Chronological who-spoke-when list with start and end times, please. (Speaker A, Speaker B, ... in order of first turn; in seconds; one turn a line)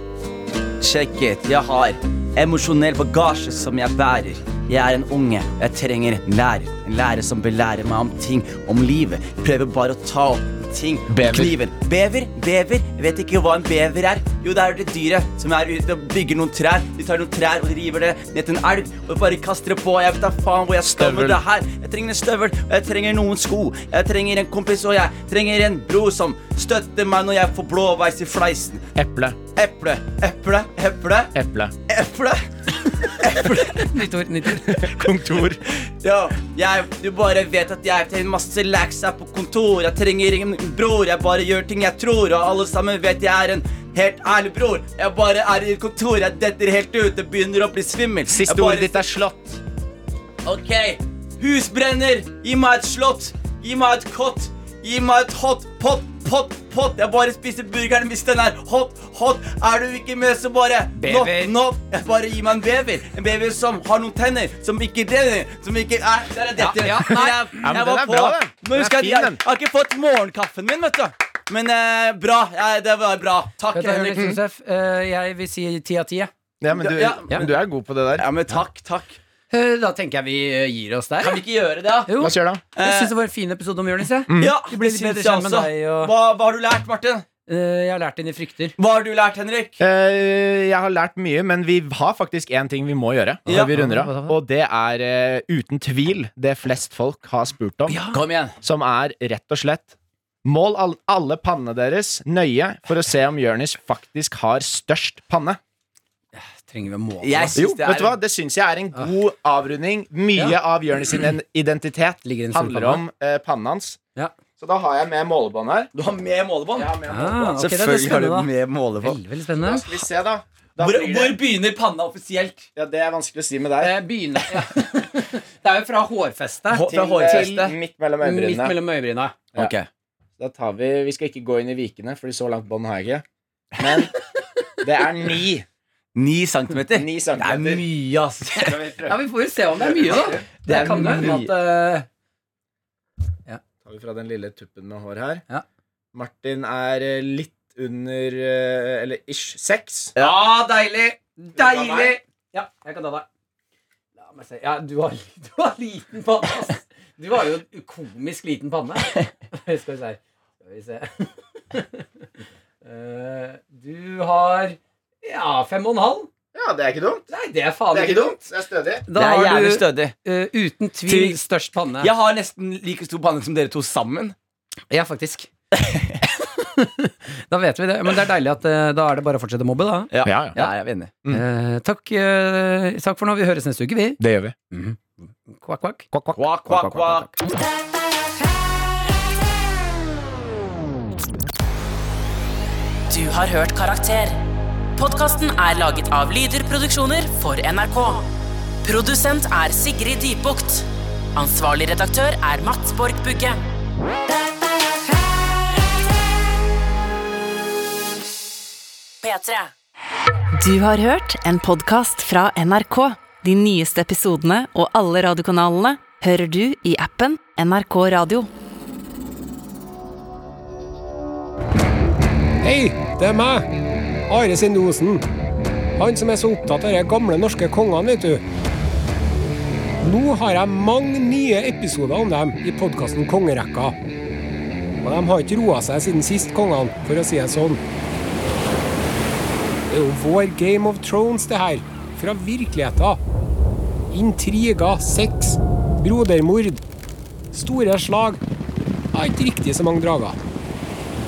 Speaker A: 0.8-28.9
Speaker B: 11.1-11.6
Speaker B: 20.8-21.4
Speaker B: 28.9-29.4
Speaker A: 29.5-31.3
Speaker B: 31.3-31.7
Speaker A: 31.9-32.5
Speaker A: 33.0-34.0
Speaker C: 33.1-34.9
Speaker B: 34.7-35.6
Speaker A: 35.6-49.0
Speaker B: 48.3-49.6
Speaker A: 50.4-74.3
Speaker C: 61.0-61.5
Speaker C: 66.6-67.5
Speaker B: 67.6-69.4
Speaker C: 73.7-76.3
Speaker B: 76.6-78.3
Speaker A: 76.7-77.5
Speaker A: 78.2-79.2
Speaker C: 79.5-81.4
Speaker A: 81.2-82.1
Speaker C: 82.1-86.1
Speaker B: 82.2-82.6
Speaker A: 82.8-83.1
Speaker B: 84.3-84.5
Speaker A: 84.3-87.2
Speaker C: 87.5-88.7
Speaker A: 88.8-89.8
Speaker B: 89.8-98.0
Speaker C: 93.5-94.4
Speaker A: 93.5-93.7
Speaker C: 97.9-98.2
Speaker A: 98.1-98.5
Speaker B: 98.6-105.6
Speaker C: 106.3-107.7
Speaker A: 107.2-108.2
Speaker B: 107.5-114.0
Speaker C: 112.2-113.0
Speaker B: 114.6-115.9
Speaker A: 115.9-116.9
Speaker B: 116.7-117.6
Speaker C: 117.1-118.5
Speaker A: 117.6-119.2
Speaker C: 119.0-119.9
Speaker B: 119.6-121.4
Speaker A: 120.8-122.7
Speaker B: 122.8-124.0
Speaker C: 123.8-127.3
Speaker A: 126.7-127.8
Speaker B: 126.9-128.8
Speaker C: 128.2-129.3
Speaker A: 129.6-129.9
Speaker B: 130.4-133.2
Speaker B: 133.8-134.1
Speaker B: 134.8-135.7
Speaker A: 136.1-138.8
Speaker B: 136.9-137.8
Speaker B: 138.6-139.2
Speaker C: 139.1-142.1
Speaker B: 139.8-140.4
Speaker A: 140.2-141.5
Speaker B: 143.8-145.4
Speaker B: 146.1-150.1
Speaker A: 150.2-150.4
Speaker C: 150.2-153.3
Speaker B: 151.6-152.1
Speaker C: 154.2-162.1
Speaker C: 162.8-166.3
Speaker B: 166.5-167.3
Speaker C: 167.3-168.4
Speaker B: 167.9-169.0
Speaker C: 169.1-172.1
Speaker A: 169.1-170.1
Speaker A: 171.1-171.4
Speaker A: 172.0-174.3
Speaker C: 174.9-175.5
Speaker A: 175.8-176.1
Speaker C: 176.2-180.7
Speaker A: 180.1-181.1
Speaker B: 180.2-180.5
Speaker C: 181.3-184.2
Speaker B: 184.2-184.5
Speaker C: 184.7-186.1
Speaker B: 186.1-186.8
Speaker A: 186.3-187.3
Speaker C: 186.7-187.3
Speaker D: 193.1-198.3
Speaker D: 198.8-203.6
Speaker D: 209.2-209.7
Speaker E: 210.5-218.5
Speaker F: 222.6-223.7
Speaker F: 224.3-225.2
Speaker F: 226.0-228.4
Speaker F: 230.0-233.9
Speaker F: 235.0-237.8
Speaker F: 239.9-243.2
Speaker F: 244.1-246.8
Speaker F: 247.5-248.4
Speaker F: 249.1-250.4